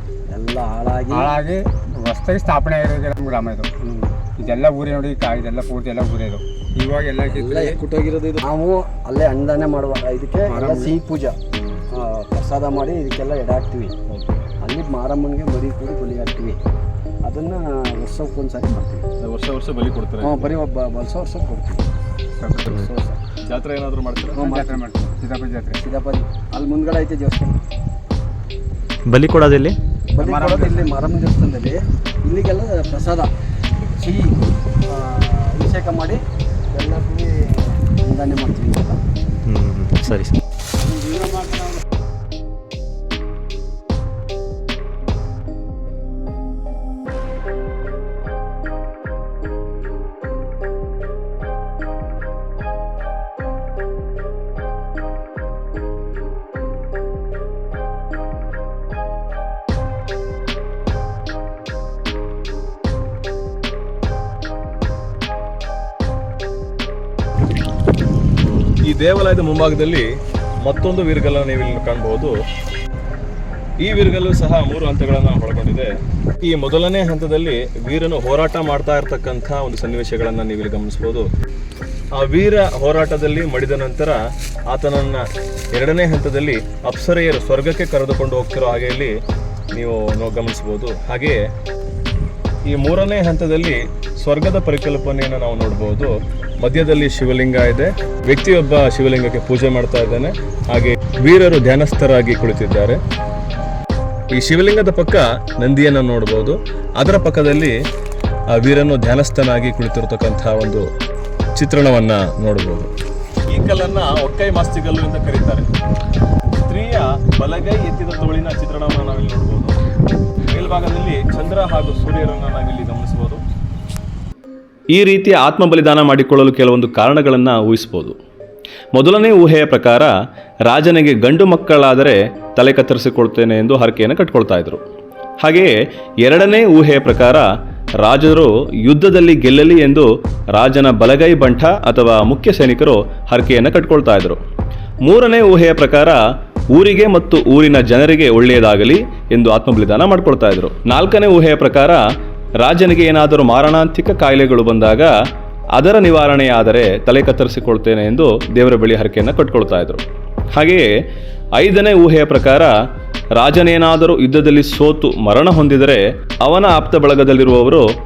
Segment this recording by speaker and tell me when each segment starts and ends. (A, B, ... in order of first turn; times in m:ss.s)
0:00.3-0:01.4 A
0:01.1-0:03.7 B
0:03.8-0:04.2 A
0:04.4-0:07.8 B
0:07.3-0:11.4 A
0:10.5-0:10.9 B
0:11.5-0:11.8 C
0:11.9-0:13.9 A
0:14.1-0:14.4 C
0:14.6-0:16.6 A
0:17.2-0:19.0 A
0:19.2-0:20.6 C
0:20.2-0:21.8 A
0:22.4-0:22.7 B
0:22.6-0:22.9 D
0:22.7-0:23.2 A
0:23.4-0:24.4 C
0:24.3-0:24.8 A
0:24.4-0:25.8 B
0:25.8-0:27.6 A
0:29.0-0:29.8 D
0:30.1-0:33.3 A
0:30.2-0:30.9 B
0:33.9-0:36.2 A
0:36.7-0:39.0 A
0:39.4-0:40.4 D
0:40.8-0:41.7 A
1:08.8-1:10.1 C
1:10.6-1:12.4 C
1:13.8-1:15.9 C
1:16.4-1:21.3 C
1:22.1-1:29.2 C
1:29.7-1:31.4 C
1:32.6-1:43.0 C
1:44.3-1:47.7 C
1:48.5-1:50.9 C
1:51.5-1:52.9 C
1:53.5-1:55.7 C
1:56.5-1:59.7 C
2:00.5-2:03.4 C
2:04.9-2:08.2 C
2:08.9-2:10.1 C
2:10.6-2:14.8 C
2:15.4-2:17.5 C
2:18.0-2:24.4 C
2:25.0-2:26.2 C
2:26.7-2:32.0 C
2:32.6-2:35.1 C
2:35.7-2:40.9 C
2:41.6-2:42.7 C
2:43.3-2:47.9 C